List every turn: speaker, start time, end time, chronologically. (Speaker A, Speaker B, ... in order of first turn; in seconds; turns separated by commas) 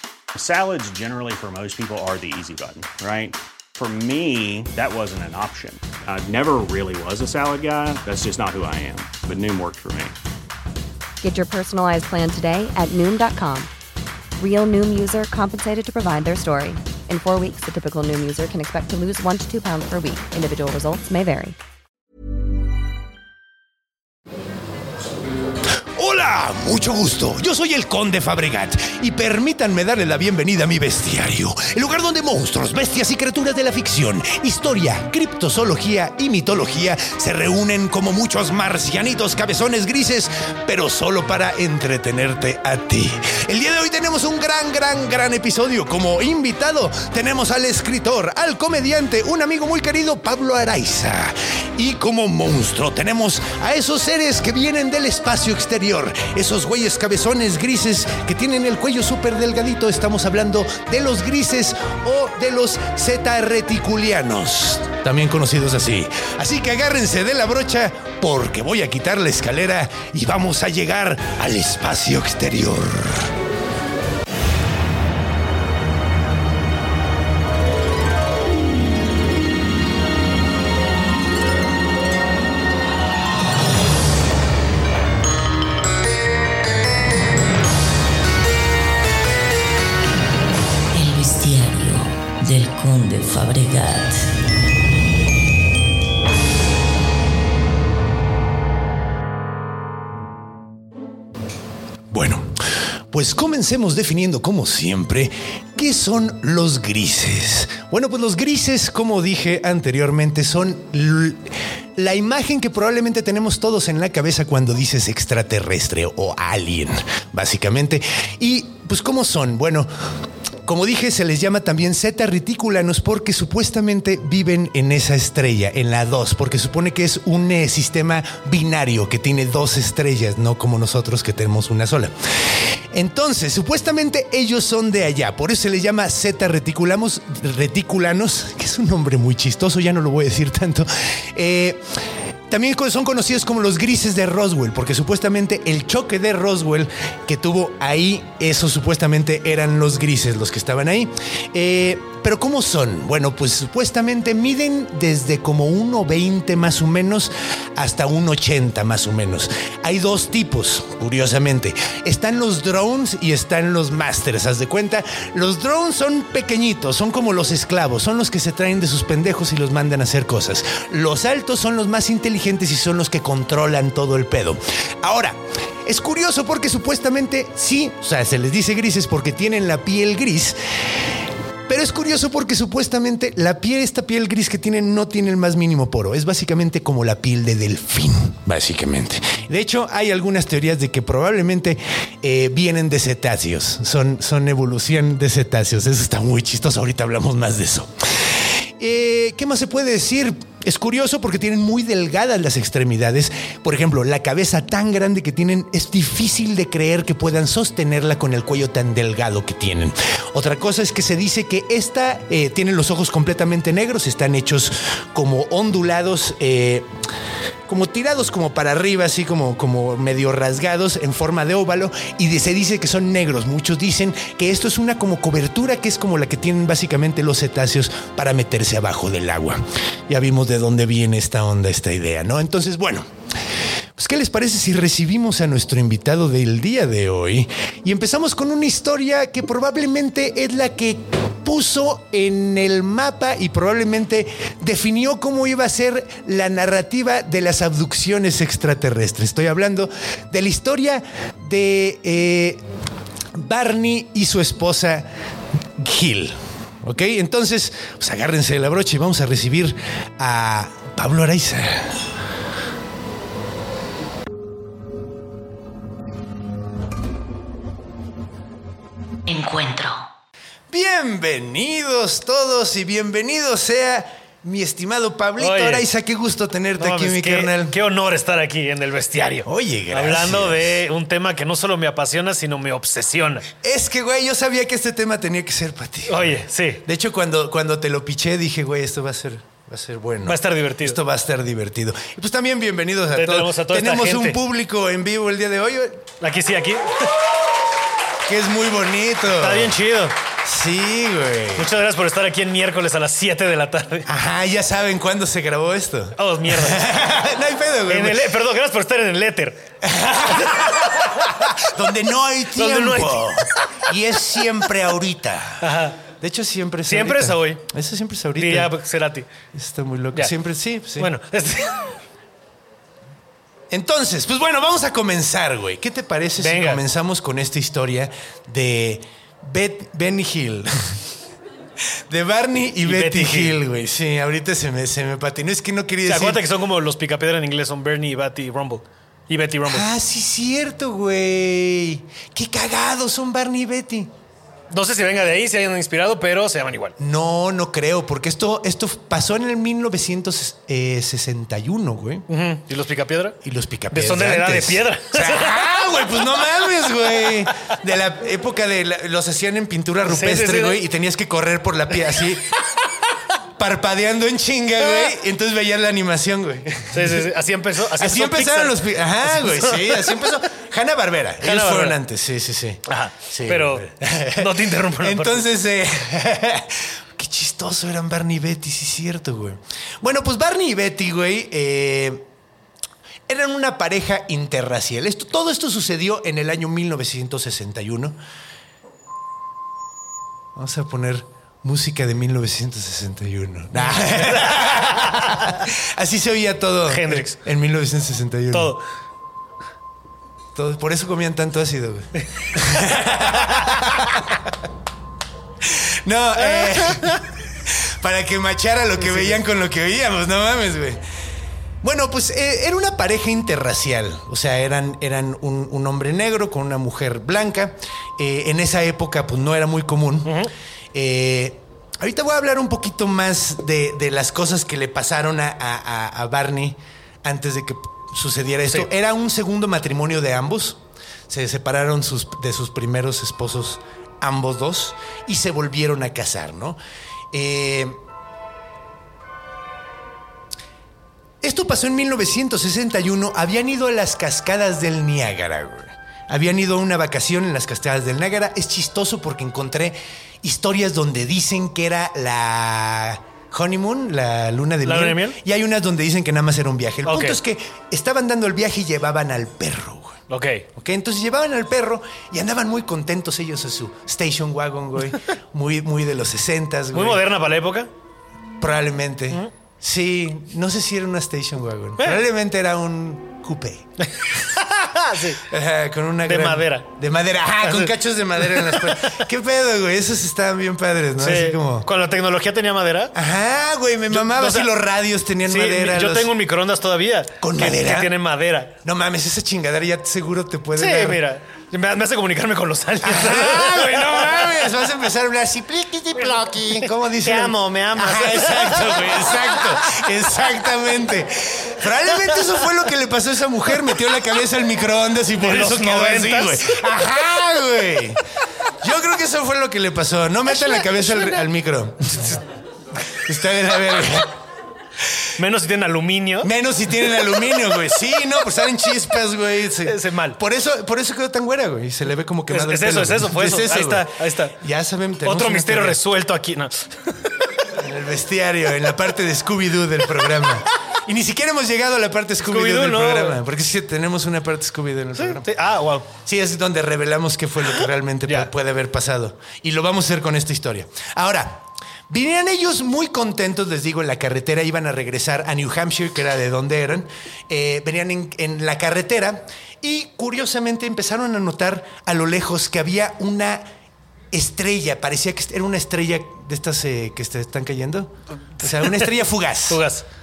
Speaker A: 0.3-10.2, Speaker B: 11.2-13.7, Speaker B: 14.4-21.6, Speaker C: 25.9-73.3, Speaker D: 90.9-94.3, Speaker C: 102.1-102.5, Speaker C: 103.1-119.9, Speaker C: 120.6-132.1, Speaker C: 132.9-141.8, Speaker C: 142.5-180.6, Speaker C: 181.7-216.9, Speaker C: 217.7-233.1, Speaker C: 234.0-252.6, Speaker C: 253.3-255.1, Speaker C: 255.8-262.0, Speaker D: 269.3-270.1, Speaker C: 270.7-277.8, Speaker E: 275.4-275.9, Speaker E: 276.8-283.5, Speaker C: 279.4-280.8, Speaker C: 283.6-296.1, Speaker E: 286.1-286.8, Speaker E: 290.2-291.0, Speaker E: 293.1-294.4, Speaker E: 296.2-297.1, Speaker C: 298.2-299.8, Speaker E: 299.3-300.1, Speaker C: 300.4-301.7, Speaker E: 301.6-304.1, Speaker C: 304.1-308.3, Speaker E: 306.2-306.9, Speaker E: 307.9-309.7, Speaker C: 309.8-318.7, Speaker E: 312.6-313.7, Speaker E: 315.6-316.0, Speaker E: 316.9-317.6, Speaker E: 318.4-319.3, Speaker C: 319.5-321.1, Speaker E: 321.0-321.9, Speaker C: 323.7-331.0, Speaker E: 326.4-326.8, Speaker C: 332.1-336.4, Speaker E: 332.8-333.6, Speaker E: 336.1-339.9, Speaker C: 339.6-344.1, Speaker E: 344.7-346.9, Speaker C: 347.0-352.3, Speaker E: 352.3-353.4, Speaker C: 353.4-362.6, Speaker E: 353.9-356.3, Speaker E: 360.1-360.8, Speaker C: 363.6-367.3, Speaker E: 366.9-370.3, Speaker C: 368.0-382.3, Speaker E: 371.4-372.0, Speaker E: 372.9-375.4, Speaker C: 383.3-388.2, Speaker C: 390.6-398.8, Speaker E: 393.9-395.4, Speaker E: 396.9-397.4, Speaker E: 398.5-398.8, Speaker C: 400.6-404.5, Speaker E: 403.3-404.0, Speaker C: 405.6-411.0, Speaker E: 406.5-407.2, Speaker C: 411.8-420.4, Speaker E: 420.2-420.5, Speaker C: 420.9-436.8, Speaker C: 437.3-438.0, Speaker C: 441.4-460.2, Speaker E: 454.9-455.4, Speaker E: 457.1-457.4, Speaker E: 460.3-460.7, Speaker C: 460.8-467.2, Speaker E: 466.9-467.9, Speaker C: 468.6-473.9, Speaker E: 474.1-475.4, Speaker C: 475.4-481.9, Speaker E: 476.3-476.9, Speaker E: 477.6-477.9, Speaker E: 478.4-479.2, Speaker E: 481.2-483.1, Speaker C: 483.1-486.3, Speaker E: 484.1-484.7, Speaker E: 485.5-488.8, Speaker C: 487.4-488.1, Speaker C: 488.8-491.2, Speaker E: 490.8-494.7, Speaker C: 493.0-508.2, Speaker E: 496.4-500.1, Speaker E: 505.4-506.7, Speaker C: 508.8-512.4, Speaker C: 513.0-514.4, Speaker E: 515.4-516.5, Speaker C: 516.4-526.0, Speaker E: 519.8-520.4, Speaker E: 522.5-524.6, Speaker E: 525.2-527.3, Speaker C: 527.7-535.5, Speaker E: 532.4-533.4, Speaker E: 535.2-536.1, Speaker C: 536.2-553.7, Speaker C: 554.3-559.8, Speaker E: 558.7-560.1